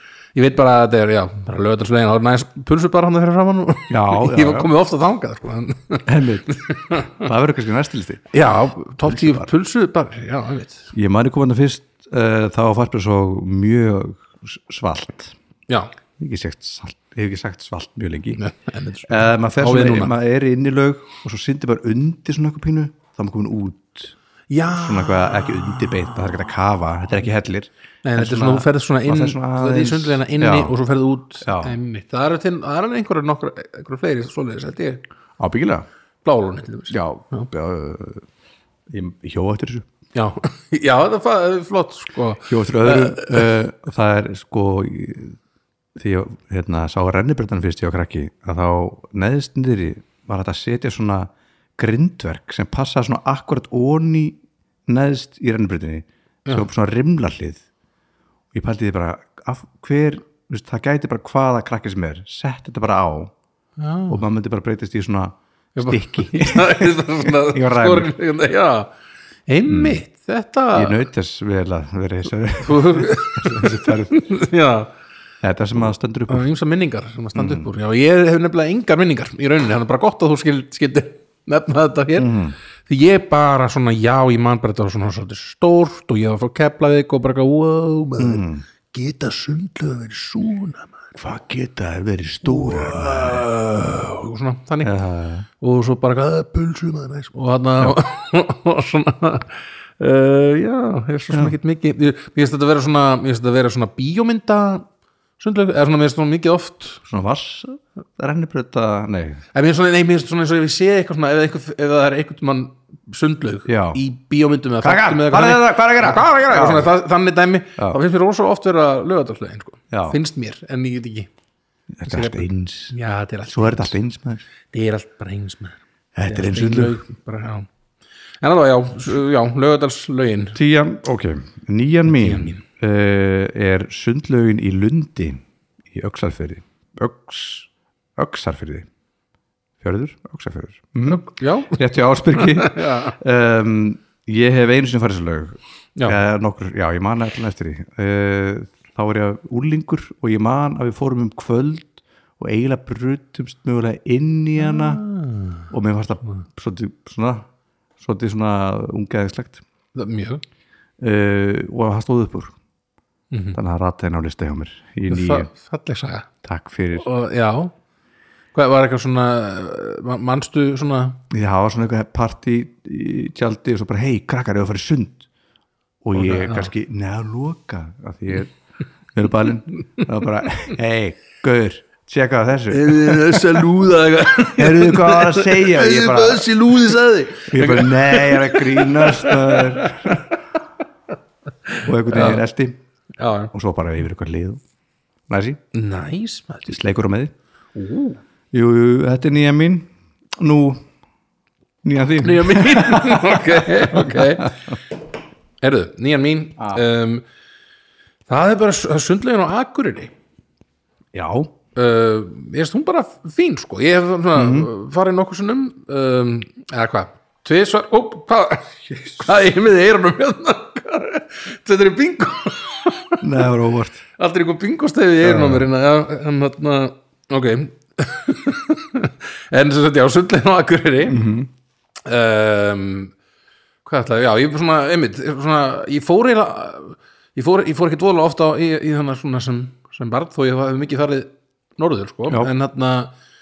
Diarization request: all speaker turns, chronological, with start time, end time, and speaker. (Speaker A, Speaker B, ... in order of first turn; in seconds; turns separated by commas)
Speaker A: 0.3-7.1, Speaker B: 3.9-4.7, Speaker B: 6.0-8.3, Speaker A: 8.3-10.9, Speaker B: 9.1-9.5, Speaker B: 10.9-15.3, Speaker B: 16.2-18.4, Speaker A: 18.4-20.1, Speaker B: 19.1-24.1, Speaker A: 24.5-26.4, Speaker B: 24.7-30.8, Speaker A: 28.0-35.0, Speaker B: 31.4-31.7, Speaker B: 35.4-35.9, Speaker A: 36.2-37.5, Speaker B: 36.9-38.2, Speaker B: 38.9-39.9, Speaker A: 40.1-43.5, Speaker B: 42.5-45.4, Speaker B: 46.0-57.6, Speaker B: 58.5-63.3, Speaker A: 63.8-64.2, Speaker B: 64.1-68.1, Speaker A: 65.8-68.9, Speaker A: 69.5-71.0, Speaker B: 69.7-70.0, Speaker B: 70.7-74.2, Speaker A: 72.6-74.9, Speaker B: 75.4-76.4, Speaker A: 76.3-82.3, Speaker B: 77.3-77.7, Speaker B: 82.2-82.5, Speaker A: 82.8-91.0, Speaker B: 88.2-88.6, Speaker B: 91.2-93.5, Speaker A: 92.4-94.9, Speaker B: 94.8-95.5, Speaker A: 95.6-104.8, Speaker A: 105.4-107.0, Speaker B: 107.1-109.4, Speaker A: 109.5-121.3, Speaker B: 113.7-114.0, Speaker B: 114.8-116.9, Speaker B: 119.9-120.2, Speaker B: 122.0-122.9, Speaker A: 122.1-124.0, Speaker B: 123.5-124.4, Speaker A: 124.7-127.7, Speaker B: 126.1-127.0, Speaker A: 128.4-130.6, Speaker B: 130.5-138.9, Speaker A: 132.1-132.6, Speaker B: 139.8-155.0, Speaker A: 141.1-143.1, Speaker A: 154.6-155.7, Speaker B: 155.7-157.4, Speaker B: 158.0-159.6, Speaker A: 159.9-160.4, Speaker B: 161.0-162.5, Speaker A: 163.3-163.6, Speaker B: 163.5-165.5, Speaker A: 165.1-166.3, Speaker B: 166.4-167.1, Speaker A: 166.9-167.7, Speaker A: 168.5-171.2, Speaker B: 171.3-175.2, Speaker B: 176.0-178.5, Speaker A: 176.1-176.7, Speaker B: 179.1-183.8, Speaker A: 182.7-190.2, Speaker B: 184.6-186.9, Speaker B: 187.5-190.3, Speaker A: 191.7-192.4, Speaker B: 191.8-192.8, Speaker A: 193.2-193.5, Speaker B: 193.5-194.6, Speaker B: 195.3-195.6, Speaker A: 195.7-196.8, Speaker B: 196.7-197.3, Speaker A: 197.7-198.2, Speaker B: 198.5-200.8, Speaker B: 201.8-204.7, Speaker A: 202.2-204.6, Speaker A: 205.6-207.2, Speaker A: 208.3-210.1, Speaker B: 211.1-211.5, Speaker A: 211.7-223.2, Speaker B: 214.3-214.7, Speaker B: 223.2-224.0, Speaker A: 224.2-231.2, Speaker B: 225.2-225.6, Speaker B: 231.1-231.5, Speaker A: 232.0-233.1, Speaker A: 233.8-243.1